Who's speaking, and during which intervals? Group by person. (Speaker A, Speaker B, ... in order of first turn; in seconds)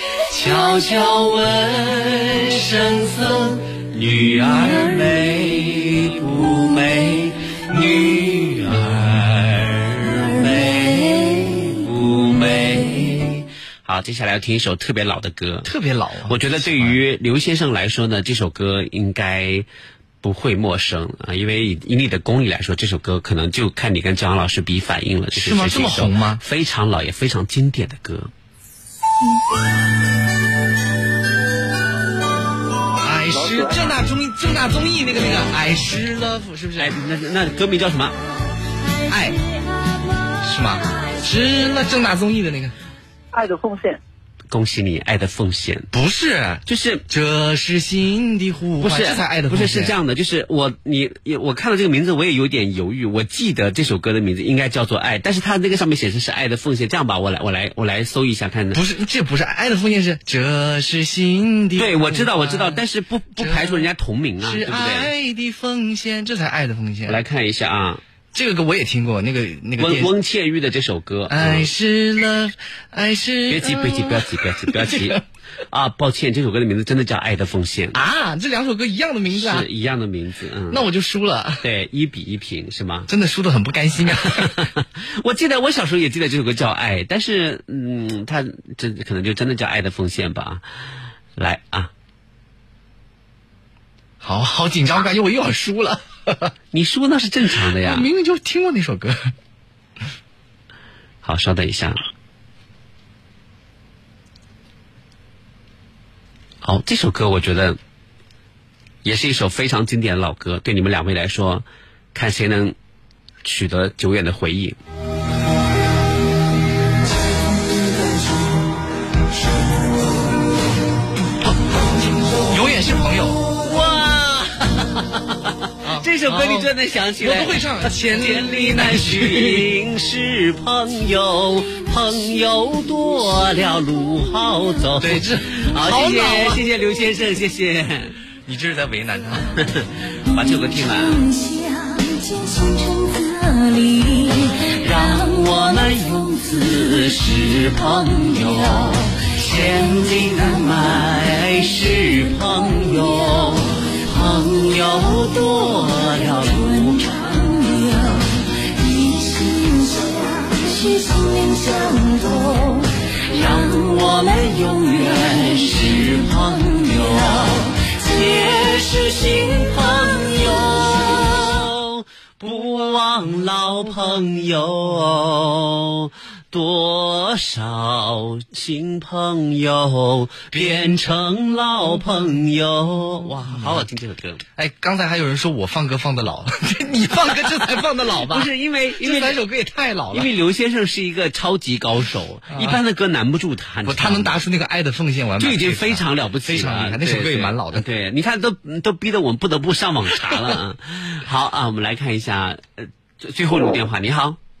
Speaker A: 0.3-0.8, 15.6-17.0, 25.3-26.4, 33.0-36.9, 39.1-39.4, 40.4-42.7, 45.9-49.9, 58.7-62.8, 63.4-63.9, 64.4-67.2, 68.3-70.1, 71.3-75.2, 77.9-79.7, 80.7-81.6, 83.1-84.7, 94.2-96.5, 97.7-99.3, 122.4-123.4, 125.8-129.7, 135.0-136.6, 138.4-139.5, 180.6-180.9, 183.3-183.8, 184.6-190.3, 192.5-192.8, 193.8-197.8
Speaker B: 0.5-0.9, 10.6-11.6, 140.4-149.2, 152.7-153.6, 154.3-168.9, 170.2-171.2
Speaker C: 0.6-15.7, 16.3-19.6, 20.2-28.3, 36.8-38.1, 44.5-45.9, 46.6-47.0, 48.8-58.8, 61.8-65.1, 67.1-68.0, 69.8-71.7, 73.5-75.2, 75.7-78.0, 79.3-80.8, 81.6-83.1, 84.4-90.6, 91.3-91.9, 96.7-98.1, 101.2-102.0, 106.6-107.8, 109.0-112.7, 113.4-114.8, 123.6-138.2, 139.6-141.2, 144.8-157.3, 163.3-167.4, 168.0-184.4, 188.1-189.4, 190.1-194.3, 195.4-204.4